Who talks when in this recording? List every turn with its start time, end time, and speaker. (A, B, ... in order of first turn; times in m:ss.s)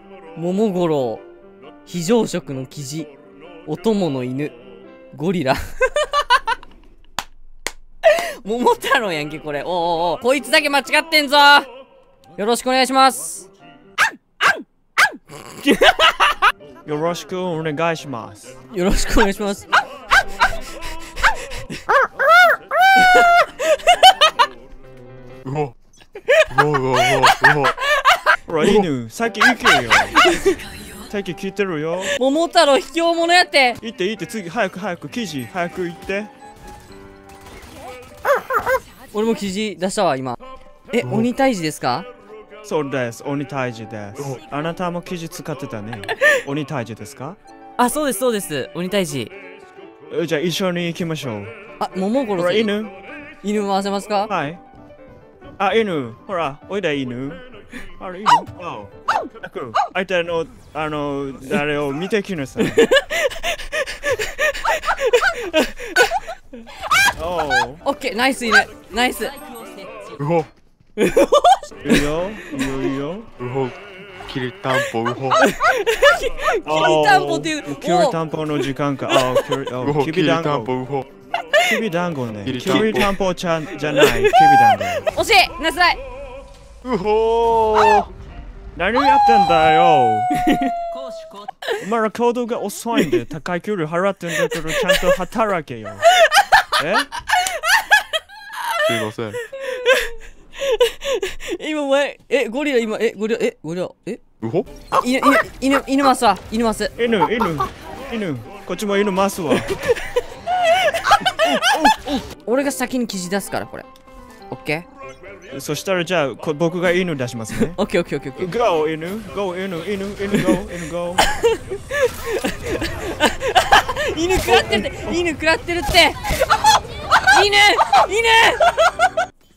0:00.3-0:01.2 A
0:01.8-0:03.1 A
0:03.6-0:04.6 A
0:05.1-0:06.3 A
0:08.0-0:11.7 A
0:12.4-0:13.5 A
0:15.3-0:16.2 A
0:16.8-0:18.5 B
0:18.7-0:19.7 A
0:23.0-0:24.2 A
0:25.4-0:25.7 C
0:26.5-0:27.7 C
0:27.1-0:28.1 A
0:28.5-0:30.2 B
0:30.1-0:30.8 A
0:31.1-0:32.2 B
0:32.1-0:33.8 A
0:33.8-0:36.3 B
0:39.1-0:40.4 A
0:40.9-0:42.1 A
0:41.0-0:41.3 C
0:42.6-0:47.4 B
0:47.8-0:49.3 A
0:50.1-0:51.5 B
0:51.8-0:52.7 A
0:52.4-0:52.9 B
0:53.4-0:54.3 A
0:54.3-0:54.6 B
0:55.6-0:57.4 B
0:58.0-1:02.8 B
1:02.6-1:06.2 A
1:07.2-1:07.8 B
1:07.8-1:09.4 A
1:10.2-1:10.5 C
1:11.0-1:12.1 A
1:11.8-1:13.3 B
1:13.4-1:15.4 C
1:15.3-1:18.2 A
1:16.6-1:20.7 B
1:19.1-1:19.5 A
1:19.8-1:21.0 C
1:21.6-1:25.1 B
1:22.4-1:23.2 C
1:23.9-1:26.0 A
1:26.8-1:28.0 C
1:28.8-1:30.3 B
1:30.4-1:30.7 A
1:31.8-1:36.1 B
1:34.4-1:35.1 A
1:36.2-1:36.7 A
1:36.8-1:37.1 B
1:37.3-1:38.0 A
1:38.6-1:38.9 A
1:38.9-1:39.4 C
1:39.5-1:44.2 A
1:44.4-1:44.7 C
1:44.9-1:46.9 A
1:47.0-1:49.7 B
1:49.6-1:50.0 A
1:50.7-1:53.8 A
1:51.4-1:52.0 B
1:54.5-1:54.8 A
1:55.5-1:57.8 B
1:57.5-1:58.5 A
1:58.4-2:01.2 B
2:00.3-2:00.7 A
2:01.2-2:08.8 A
2:04.4-2:05.2 B